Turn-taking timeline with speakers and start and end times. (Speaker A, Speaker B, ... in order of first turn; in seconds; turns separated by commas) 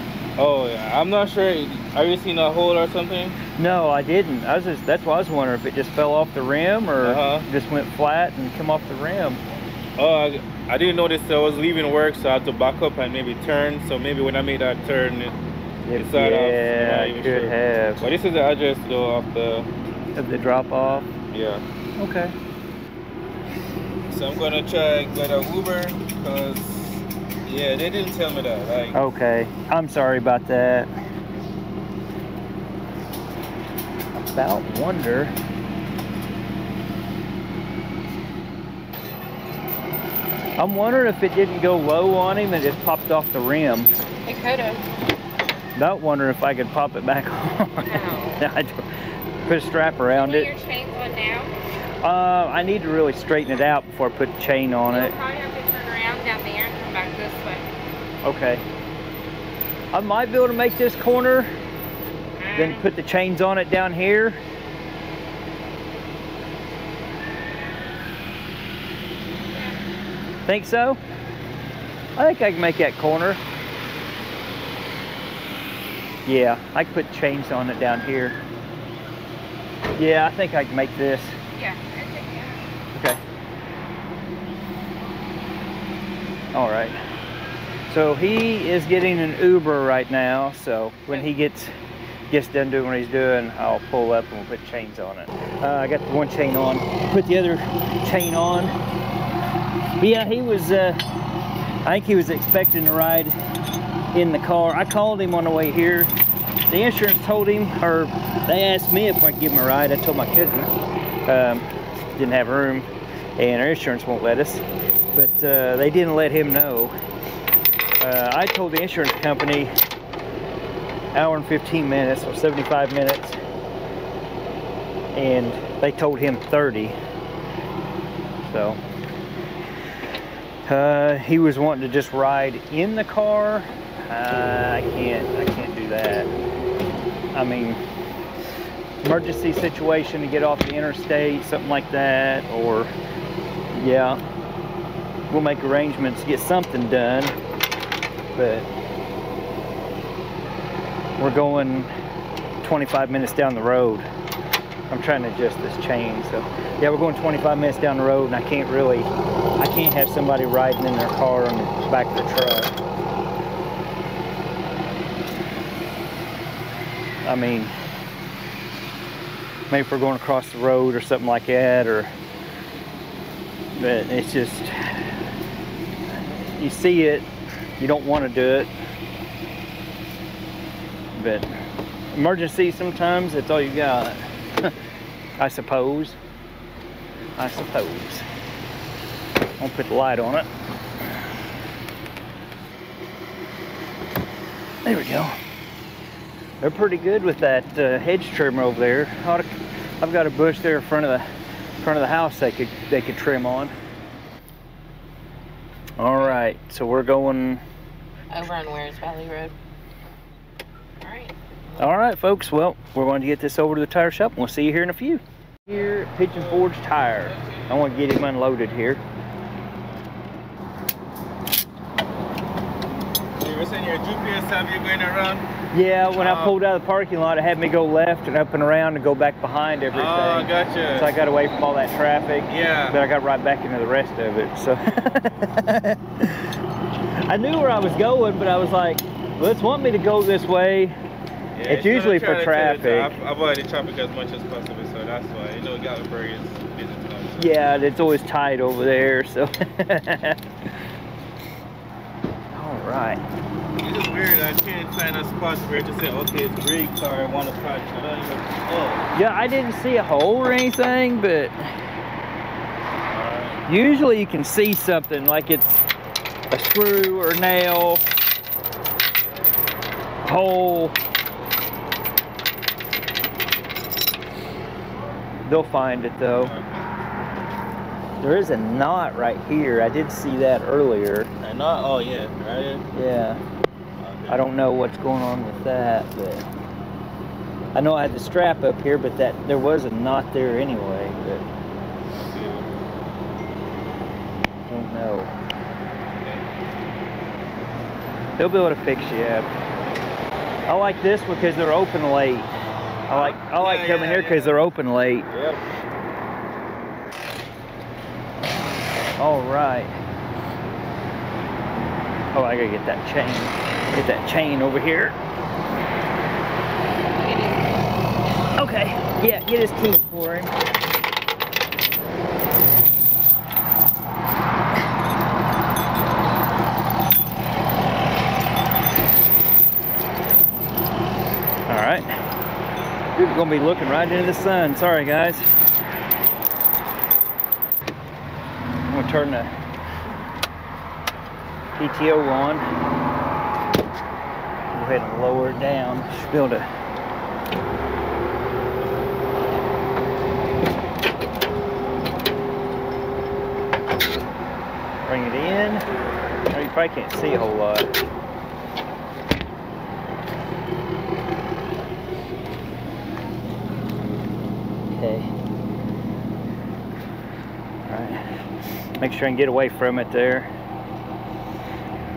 Speaker A: 0.4-3.4, Speaker B: 3.5-9.4, Speaker A: 7.0-7.5, Speaker A: 10.0-15.3, Speaker B: 15.8-18.0, Speaker A: 15.9-19.7, Speaker B: 20.1-21.1, Speaker A: 21.3-21.6, Speaker B: 22.0-22.3, Speaker A: 24.1-29.0, Speaker B: 28.9-30.9, Speaker B: 34.1-35.3, Speaker B: 40.6-43.9, Speaker C: 44.2-44.9, Speaker B: 45.7-50.5, Speaker C: 47.8-48.4, Speaker C: 50.1-51.5, Speaker B: 52.0-55.1, Speaker C: 54.9-57.6, Speaker B: 58.2-58.6, Speaker B: 59.9-61.5, Speaker C: 62.4-62.9, Speaker B: 62.5-64.4, Speaker C: 69.5-69.8, Speaker B: 70.5-71.0, Speaker B: 72.2-73.4, Speaker B: 76.2-78.4, Speaker B: 80.0-81.4, Speaker C: 81.5-82.6, Speaker B: 82.9-83.2, Speaker B: 86.5-87.0, Speaker B: 87.9-91.7, Speaker B: 92.3-98.7, Speaker B: 100.0-101.0, Speaker B: 101.8-103.3, Speaker B: 104.1-106.1, Speaker B: 106.7-110.7, Speaker B: 111.2-116.9, Speaker B: 118.0-119.7, Speaker B: 121.1-123.4, Speaker B: 125.1-127.0, Speaker B: 128.4-128.8, Speaker B: 130.6-136.3, Speaker B: 137.3-137.8, Speaker B: 139.0-142.9, Speaker B: 143.7-144.2, Speaker B: 145.3-147.4, Speaker B: 148.3-148.7, Speaker B: 151.2-151.9, Speaker B: 152.6-154.1, Speaker B: 154.9-162.7, Speaker B: 167.2-167.7, Speaker B: 169.7-172.1, Speaker B: 173.7-175.2, Speaker B: 176.2-177.3, Speaker B: 177.8-178.7, Speaker B: 181.1-181.5, Speaker B: 182.1-184.7, Speaker B: 185.4-186.2, Speaker B: 187.4-188.3, Speaker B: 189.6-190.5, Speaker B: 194.8-195.4, Speaker B: 196.6-199.5, Speaker B: 200.0-201.3, Speaker B: 201.8-203.7, Speaker B: 206.0-207.6, Speaker C: 208.3-209.5, Speaker C: 211.0-211.3, Speaker B: 211.8-219.0, Speaker A: 217.3-217.7, Speaker A: 223.4-225.4, Speaker B: 225.7-236.6, Speaker A: 226.2-226.6, Speaker A: 229.9-231.1, Speaker A: 232.5-233.0, Speaker B: 237.2-241.0, Speaker A: 241.5-247.6, Speaker B: 241.7-243.1, Speaker B: 247.4-250.4, Speaker B: 252.5-253.2, Speaker A: 253.8-259.1, Speaker B: 259.1-261.6, Speaker A: 263.1-263.6, Speaker B: 263.6-265.8, Speaker B: 266.5-268.0, Speaker B: 270.2-271.0, Speaker B: 275.4-276.5, Speaker A: 276.4-276.7, Speaker B: 278.2-281.3, Speaker A: 281.4-282.9, Speaker B: 282.9-283.4, Speaker A: 284.0-284.5, Speaker B: 284.3-286.5, Speaker B: 287.7-291.4, Speaker A: 292.2-292.7, Speaker B: 294.7-295.3, Speaker A: 296.2-296.4, Speaker B: 298.4-299.5, Speaker B: 300.6-302.5, Speaker A: 303.1-304.7, Speaker B: 303.1-305.3, Speaker A: 305.3-305.6, Speaker B: 309.2-309.9, Speaker B: 312.3-315.2, Speaker C: 317.1-317.7, Speaker B: 318.5-320.5, Speaker B: 331.7-332.1, Speaker B: 333.1-335.5, Speaker B: 338.9-339.5, Speaker B: 341.8-342.6, Speaker B: 344.7-346.6, Speaker B: 355.0-355.9, Speaker B: 356.5-357.9, Speaker B: 364.9-365.3, Speaker B: 367.8-368.4, Speaker B: 369.0-370.5